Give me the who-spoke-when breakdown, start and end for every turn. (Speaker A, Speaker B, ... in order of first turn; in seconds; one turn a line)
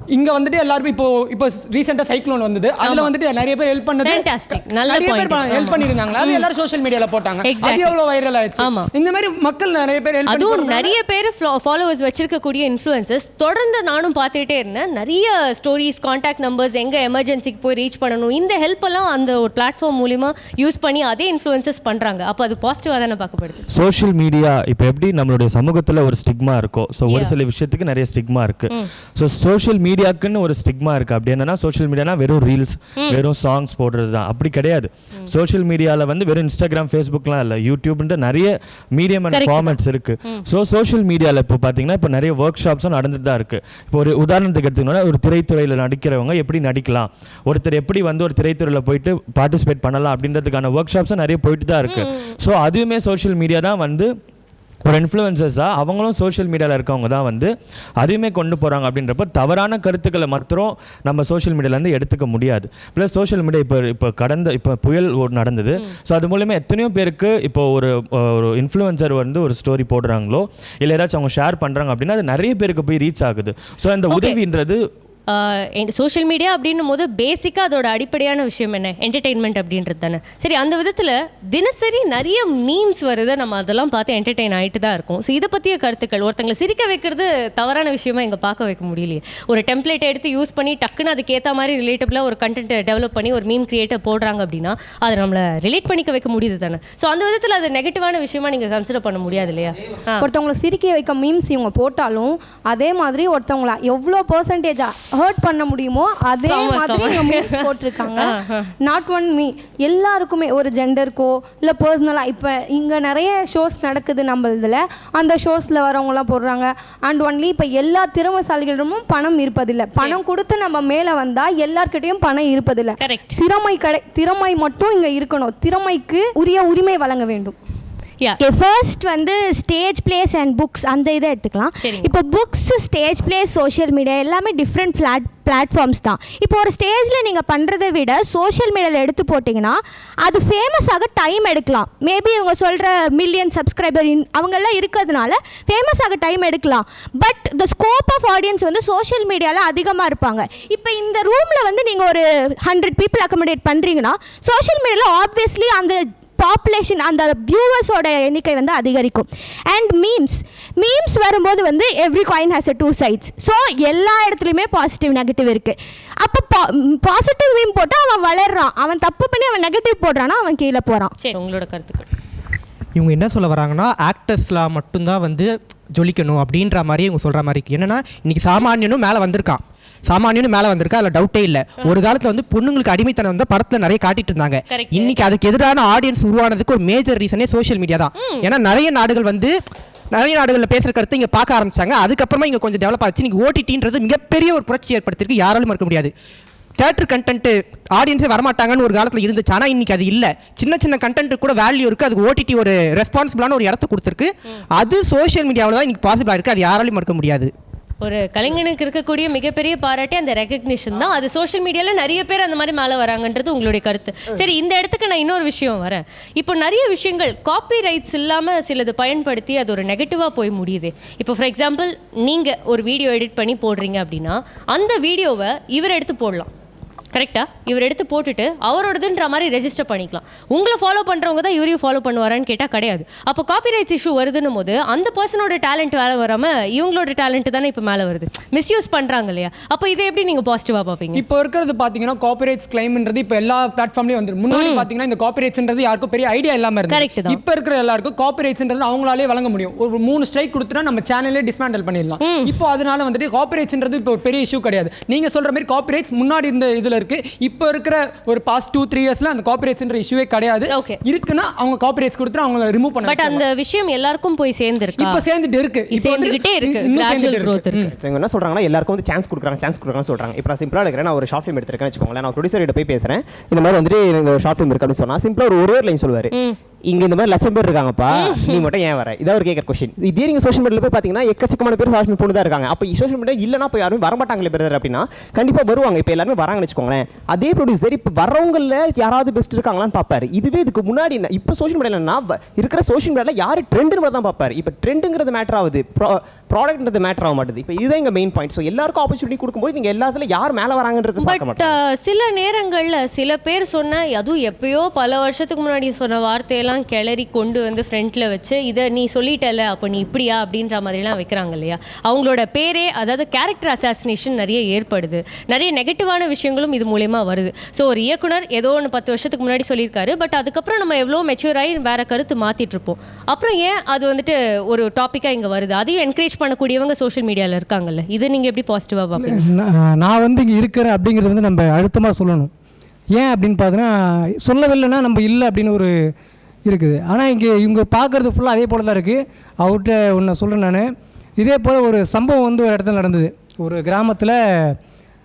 Speaker A: 0.1-10.9
Speaker B: 2.8-3.1
Speaker B: 4.0-6.5
Speaker B: 7.4-8.0
Speaker B: 8.6-8.9
Speaker B: 10.3-23.7
Speaker C: 23.7-54.1
Speaker B: 27.1-27.3
Speaker B: 39.3-40.4
Speaker B: 51.9-52.4
Speaker C: 54.9-74.8
Speaker B: 74.1-74.4
Speaker B: 75.3-100.2
Speaker D: 100.2-127.6
Speaker B: 106.4-108.7
Speaker B: 123.0-123.4
Speaker E: 128.4-171.2
Speaker B: 131.8-132.1
Speaker B: 171.2-172.1
Speaker F: 173.0-189.5
Speaker B: 184.7-185.3
Speaker B: 188.2-188.5
Speaker F: 190.2-196.1
Speaker F: 196.8-207.5
Speaker B: 208.0-226.5
Speaker B: 227.1-241.2
Speaker A: 241.2-263.4
Speaker B: 244.5-244.9
Speaker B: 246.9-247.4
Speaker B: 252.2-252.5
Speaker B: 260.7-261.0
Speaker B: 263.0-265.2
Speaker A: 265.0-267.9
Speaker B: 265.9-267.9
Speaker G: 267.9-276.3
Speaker G: 276.9-301.8
Speaker B: 278.1-278.6
Speaker B: 301.2-329.4
Speaker H: 329.2-332.5
Speaker H: 333.1-335.9
Speaker H: 336.7-340.9
Speaker H: 341.4-344.8